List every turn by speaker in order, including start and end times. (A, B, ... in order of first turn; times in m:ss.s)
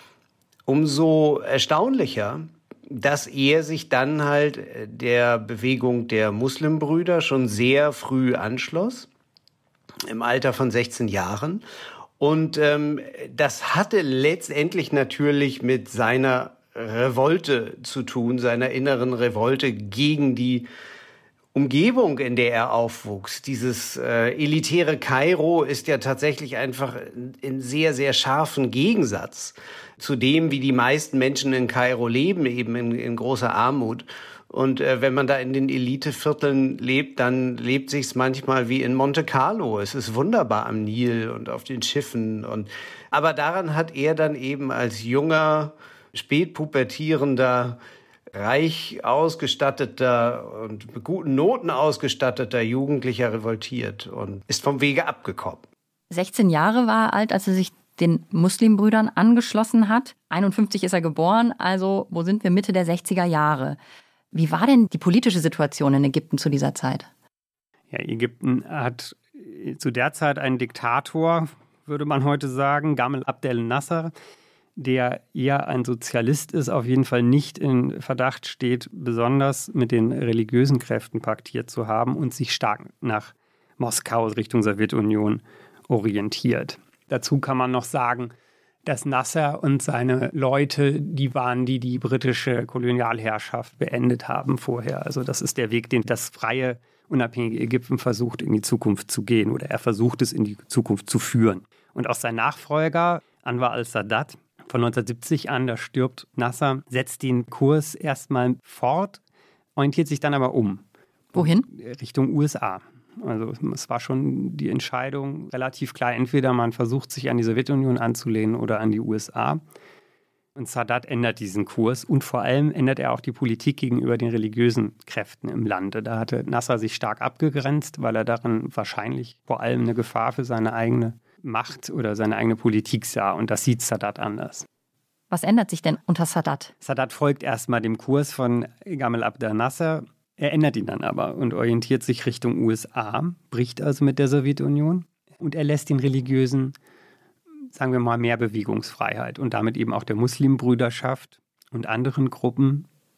0:00.6-0:09.1 A
0:10.1-0:11.6 A
0:12.2-0:20.7 A
0:21.5-0:47.8 A
0:48.3-0:55.6 A
0:56.1-1:03.8 B
1:04.3-1:07.1 B
1:07.9-1:14.1 C
1:14.8-1:28.3 C
1:28.8-1:49.2 C
1:49.8-1:50.8 C
1:51.3-1:51.7 B
1:51.3-1:59.6 C
2:00.6-2:14.6 C
2:15.3-2:16.7 B
2:16.8-2:26.7 C
2:27.7-2:32.8 C